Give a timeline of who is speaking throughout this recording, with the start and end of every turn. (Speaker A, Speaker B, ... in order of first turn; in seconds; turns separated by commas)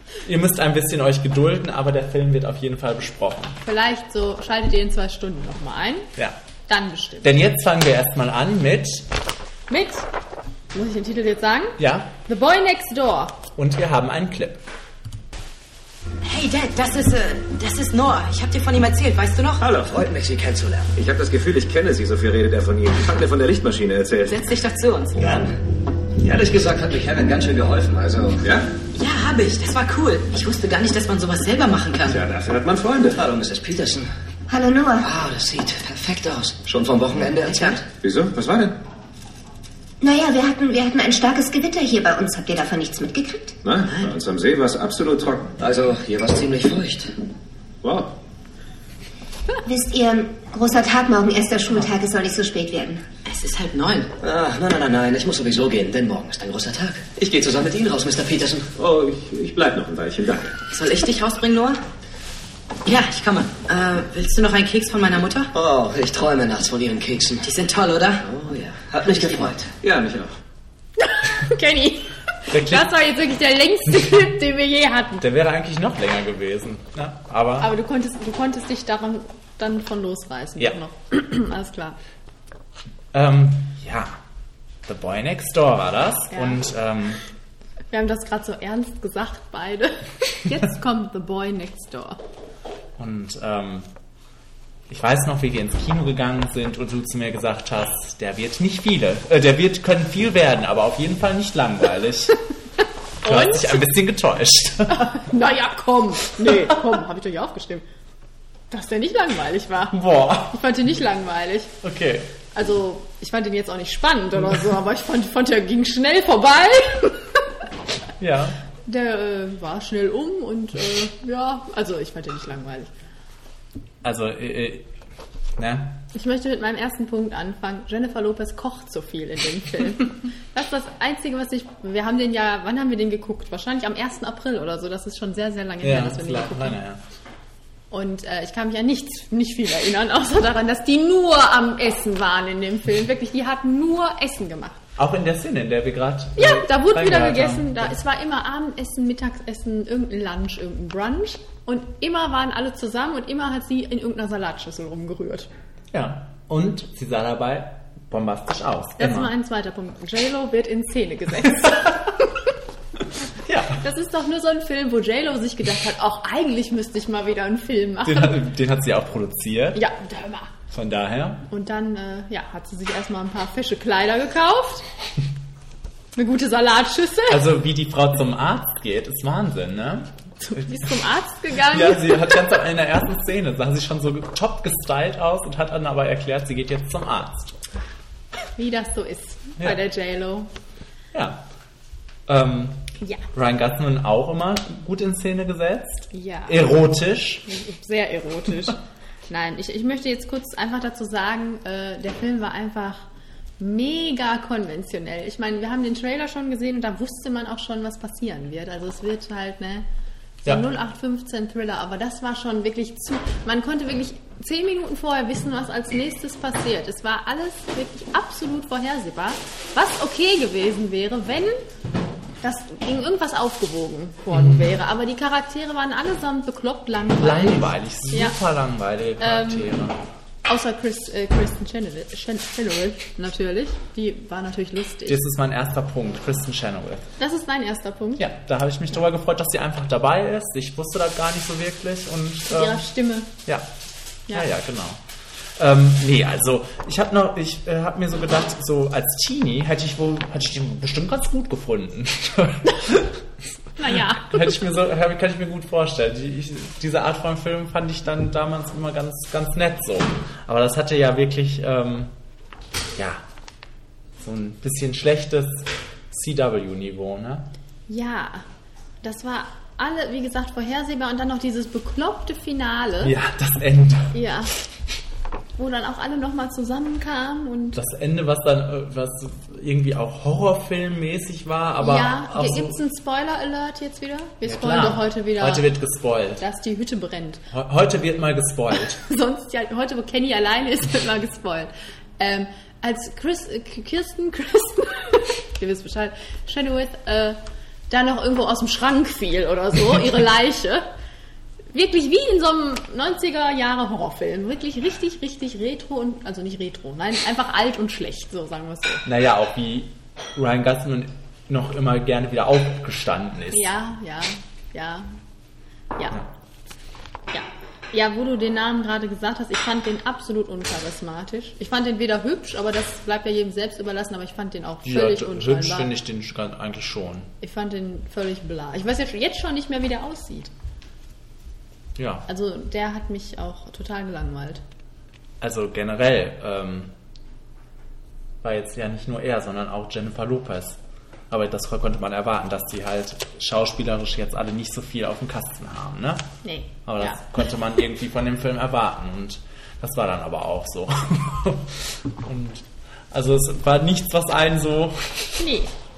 Speaker A: 0.2-3.6, Speaker B: 3.6-6.1, Speaker B: 6.7-7.4, Speaker A: 7.2-9.1, Speaker B: 9.7-10.1, Speaker B: 10.7-13.4, Speaker A: 11.8-12.1, Speaker A: 13.6-14.6, Speaker C: 16.2-19.6, Speaker D: 19.6-20.1, Speaker E: 19.8-20.9, Speaker D: 20.9-24.4, Speaker C: 24.2-25.2, Speaker E: 25.2-25.5, Speaker D: 26.2-28.7, Speaker E: 26.3-26.8, Speaker E: 27.4-28.4, Speaker C: 28.9-32.2, Speaker D: 32.1-33.2, Speaker E: 33.1-34.1, Speaker F: 34.5-35.0, Speaker E: 35.0-37.8, Speaker C: 37.4-37.8, Speaker D: 37.9-38.7, Speaker F: 40.0-43.5, Speaker D: 43.6-45.6, Speaker E: 45.6-47.1, Speaker D: 47.8-48.1, Speaker F: 49.6-53.0, Speaker C: 53.2-54.1, Speaker E: 54.2-58.7, Speaker D: 58.8-60.5, Speaker C: 60.7-61.8, Speaker C: 62.8-65.5, Speaker E: 65.5-67.5, Speaker C: 67.4-68.2, Speaker E: 68.2-69.7, Speaker C: 69.0-69.5, Speaker D: 69.8-70.3, Speaker B: 71.0-75.2, Speaker A: 72.5-72.9, Speaker A: 75.2-77.7, Speaker B: 77.6-82.0, Speaker A: 83.1-84.2, Speaker A: 84.8-87.2, Speaker B: 86.3-86.7, Speaker B: 87.9-92.2, Speaker A: 93.0-93.9, Speaker A: 94.9-102.3, Speaker B: 103.2-103.8, Speaker A: 103.2-105.2, Speaker B: 104.9-107.8, Speaker B: 108.7-111.7, Speaker A: 109.9-110.6, Speaker A: 111.8-112.3, Speaker B: 112.5-117.2, Speaker A: 118.2-118.5, Speaker B: 118.9-122.9, Speaker A: 124.0-124.9, Speaker A: 125.6-126.0, Speaker B: 126.1-136.8, Speaker A: 135.8-137.0, Speaker B: 137.9-144.8, Speaker A: 145.0-147.9, Speaker B: 146.3-155.5, Speaker A: 155.9-159.3, Speaker B: 159.0-162.3, Speaker A: 163.4-163.8, Speaker B: 163.8-168.4, Speaker A: 168.0-169.8, Speaker B: 169.7-170.5, Speaker A: 170.7-171.4, Speaker B: 171.5-174.8, Speaker B: 176.1-177.4, Speaker A: 177.3-180.7, Speaker B: 180.4-182.4, Speaker A: 181.7-187.5, Speaker B: 188.6-190.5, Speaker A: 191.1-191.4, Speaker A: 192.3-197.4, Speaker B: 196.1-196.7, Speaker B: 197.5-203.0, Speaker B: 203.6-209.8, Speaker B: 210.4-221.6, Speaker B: 222.4-228.4, Speaker A: 224.3-224.8, Speaker A: 227.2-230.0, Speaker B: 229.2-229.7, Speaker B: 230.4-235.2, Speaker A: 235.1-237.1, Speaker B: 237.2-238.2, Speaker A: 238.2-242.8, Speaker B: 242.5-243.3, Speaker A: 244.3-245.0, Speaker A: 245.6-253.2, Speaker B: 253.8-254.8, Speaker A: 253.8-262.1, Speaker A: 262.9-263.2, Speaker A: 264.2-267.5, Speaker B: 267.9-268.4, Speaker B: 269.0-273.1, Speaker A: 273.0-274.2, Speaker B: 274.1-274.5, Speaker B: 275.6-277.8, Speaker A: 277.7-282.8, Speaker B: 281.8-285.7, Speaker A: 284.4-286.4, Speaker B: 286.4-287.4, Speaker A: 287.5-289.0, Speaker B: 289.1-297.4, Speaker B: 297.9-300.9, Speaker B: 301.7-309.0, Speaker A: 309.0-313.7, Speaker B: 313.5-315.1, Speaker B: 317.3-325.9, Speaker A: 324.8-327.3, Speaker B: 327.4-330.5, Speaker A: 331.9-332.2, Speaker B: 332.3-334.6, Speaker A: 335.4-336.9, Speaker A: 338.4-340.8, Speaker A: 341.3-346.3, Speaker B: 346.4-347.3, Speaker A: 346.9-355.4, Speaker B: 355.4-355.7